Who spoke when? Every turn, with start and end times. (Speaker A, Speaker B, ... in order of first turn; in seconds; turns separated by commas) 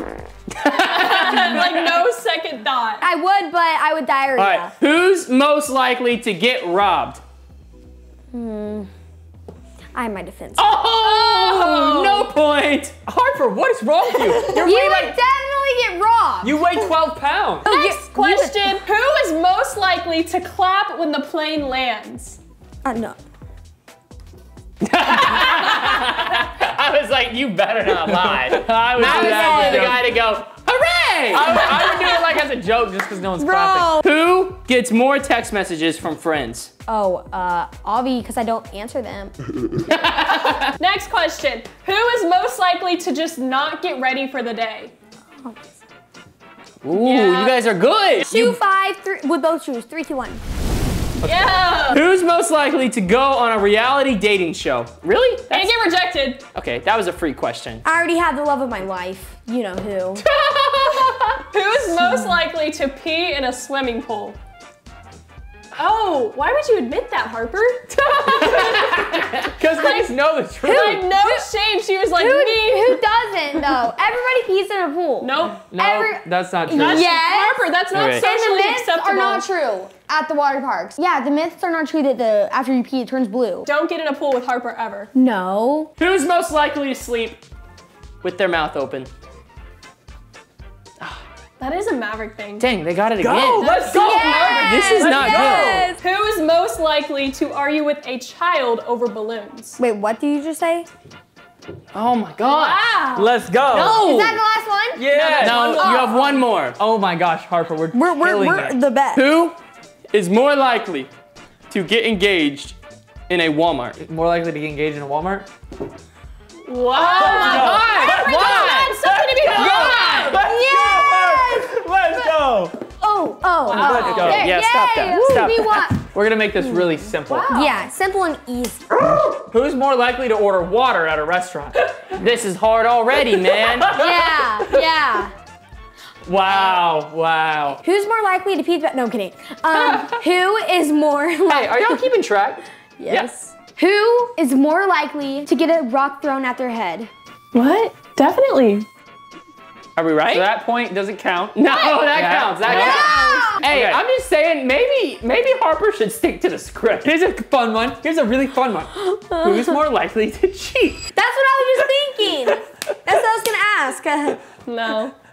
Speaker A: 0.6-2.0, Speaker B: 0.6-3.0, Speaker C: 3.0-4.7, Speaker A: 4.4-7.2, Speaker C: 8.3-8.9, Speaker C: 9.9-10.9, Speaker A: 10.6-12.3, Speaker D: 11.4-15.1, Speaker C: 14.4-16.9, Speaker D: 16.4-17.7, Speaker B: 17.6-22.4, Speaker C: 17.6-18.8, Speaker C: 22.8-23.2, Speaker A: 24.8-31.9, Speaker D: 28.1-30.0, Speaker C: 28.9-30.0, Speaker D: 31.1-34.0, Speaker C: 31.5-32.3, Speaker C: 33.4-34.0, Speaker A: 34.0-36.7, Speaker C: 36.9-39.3, Speaker A: 39.9-40.7, Speaker B: 40.5-44.9, Speaker A: 46.8-48.6, Speaker B: 46.9-47.5, Speaker C: 48.3-50.4, Speaker B: 51.2-52.0, Speaker A: 51.9-55.7, Speaker B: 55.5-56.4, Speaker A: 56.5-57.8, Speaker C: 57.8-60.2, Speaker A: 60.2-61.4, Speaker B: 61.5-64.4, Speaker B: 65.7-69.0, Speaker A: 68.2-71.1, Speaker B: 69.8-70.1, Speaker B: 70.6-73.0, Speaker C: 71.2-71.5, Speaker C: 72.1-77.6, Speaker B: 75.2-75.6, Speaker D: 75.7-77.1, Speaker B: 76.7-79.5, Speaker A: 77.9-78.2, Speaker C: 78.2-83.7, Speaker B: 83.6-85.1, Speaker C: 85.1-85.9, Speaker A: 86.0-87.4, Speaker A: 88.2-89.1, Speaker B: 91.6-92.7, Speaker A: 92.6-95.9, Speaker D: 93.2-94.8, Speaker B: 93.6-99.8, Speaker C: 93.7-96.0, Speaker C: 99.8-100.9, Speaker A: 101.9-102.8, Speaker B: 102.5-103.3, Speaker D: 103.1-104.2, Speaker A: 103.7-104.4, Speaker C: 103.8-106.4, Speaker D: 105.0-105.8, Speaker A: 105.1-106.8, Speaker B: 105.7-106.1, Speaker D: 106.7-108.8, Speaker C: 107.9-109.2, Speaker A: 109.1-109.5, Speaker A: 110.1-111.1, Speaker A: 111.7-112.8, Speaker A: 113.3-114.0, Speaker D: 114.0-115.5, Speaker B: 116.7-120.4, Speaker D: 116.9-122.8, Speaker A: 117.0-118.9, Speaker A: 119.5-120.2, Speaker C: 119.6-122.4, Speaker C: 123.0-126.0, Speaker B: 123.7-124.5, Speaker D: 123.8-127.5, Speaker A: 124.0-125.6, Speaker B: 127.2-127.8, Speaker C: 127.5-128.9, Speaker D: 129.4-132.0, Speaker A: 132.1-133.9, Speaker D: 133.3-134.8, Speaker C: 133.9-135.3, Speaker D: 136.2-137.8, Speaker C: 137.8-142.0, Speaker A: 141.5-143.3, Speaker C: 143.0-147.1, Speaker B: 147.5-148.8, Speaker A: 149.9-150.5, Speaker D: 150.3-151.6, Speaker A: 151.5-157.1, Speaker C: 151.7-152.1, Speaker D: 152.1-154.0, Speaker C: 152.7-153.7, Speaker D: 157.0-161.1, Speaker C: 159.2-159.7, Speaker C: 161.1-164.4, Speaker B: 164.6-165.1